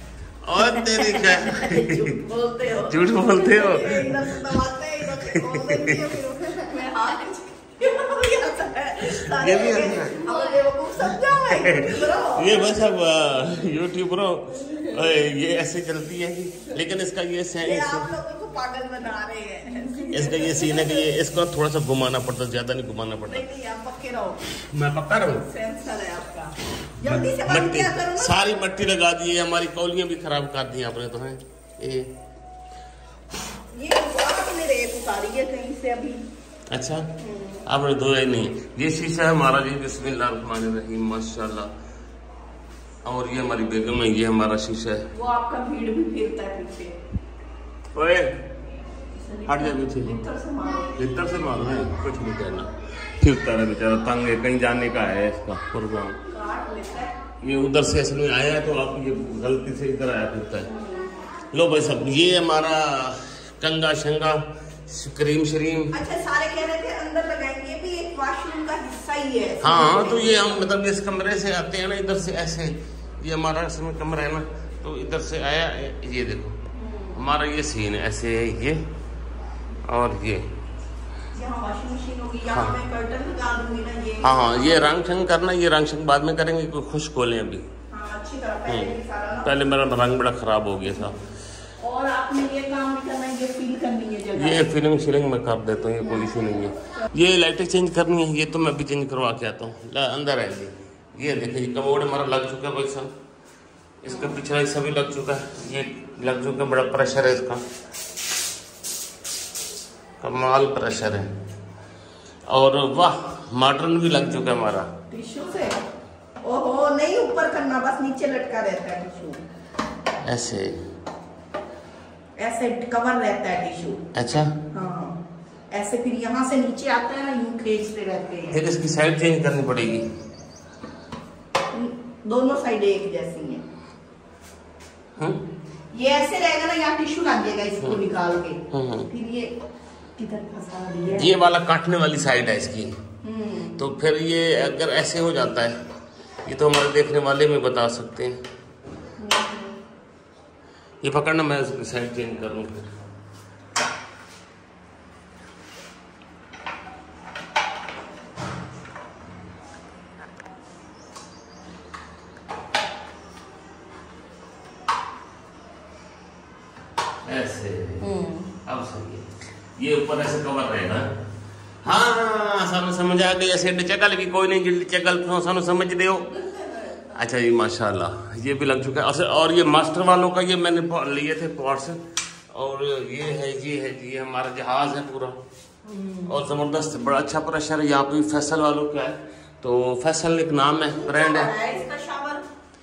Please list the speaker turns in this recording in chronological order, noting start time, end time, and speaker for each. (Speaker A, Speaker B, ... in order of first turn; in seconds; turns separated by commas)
Speaker A: 0.4-2.1, Speaker B: 0.6-12.8, Speaker A: 2.9-6.2, Speaker A: 9.1-10.2, Speaker A: 11.1-18.1, Speaker B: 17.6-21.1, Speaker A: 20.1-23.5, Speaker B: 23.3-24.4, Speaker A: 24.5-25.5, Speaker B: 25.3-28.6, Speaker A: 27.0-32.1, Speaker B: 33.7-36.2, Speaker A: 36.7-37.1, Speaker B: 37.2-37.6, Speaker A: 37.7-41.7, Speaker A: 43.0-45.1, Speaker B: 45.1-46.9, Speaker A: 47.9-48.4, Speaker B: 49.1-51.4, Speaker A: 49.5-50.3, Speaker A: 51.0-56.2, Speaker B: 56.3-57.1, Speaker A: 57.4-60.7, Speaker B: 60.6-61.1, Speaker A: 61.5-65.9, Speaker B: 65.9-70.6, Speaker A: 69.6-76.6, Speaker B: 76.7-77.2, Speaker A: 77.2-78.8, Speaker A: 79.9-80.5, Speaker B: 81.3-84.9, Speaker A: 84.2-87.7, Speaker B: 87.9-89.6, Speaker A: 88.7-91.2, Speaker B: 91.8-94.7, Speaker A: 94.3-103.1, Speaker A: 104.0-107.6, Speaker B: 104.1-104.4, Speaker A: 110.2-111.3, Speaker A: 112.5-114.9, Speaker B: 115.1-115.8, Speaker B: 116.4-119.4, Speaker A: 120.2-120.8, Speaker B: 122.4-124.0, Speaker A: 124.1-124.5, Speaker B: 124.7-125.2, Speaker B: 125.7-128.6, Speaker A: 128.5-130.1, Speaker B: 131.7-133.6, Speaker A: 135.2-135.4, Speaker B: 135.9-139.5, Speaker A: 138.7-139.1, Speaker B: 140.2-141.3, Speaker A: 141.1-142.9, Speaker B: 143.2-143.8, Speaker A: 143.8-145.8, Speaker A: 146.4-148.4, Speaker B: 149.2-149.8, Speaker A: 151.0-152.9, Speaker A: 167.2-168.1, Speaker B: 168.0-168.5, Speaker A: 168.7-171.1, Speaker A: 171.8-176.3, Speaker B: 176.3-177.2, Speaker A: 177.2-185.4, Speaker B: 185.8-186.4, Speaker A: 186.3-191.5, Speaker B: 190.9-192.4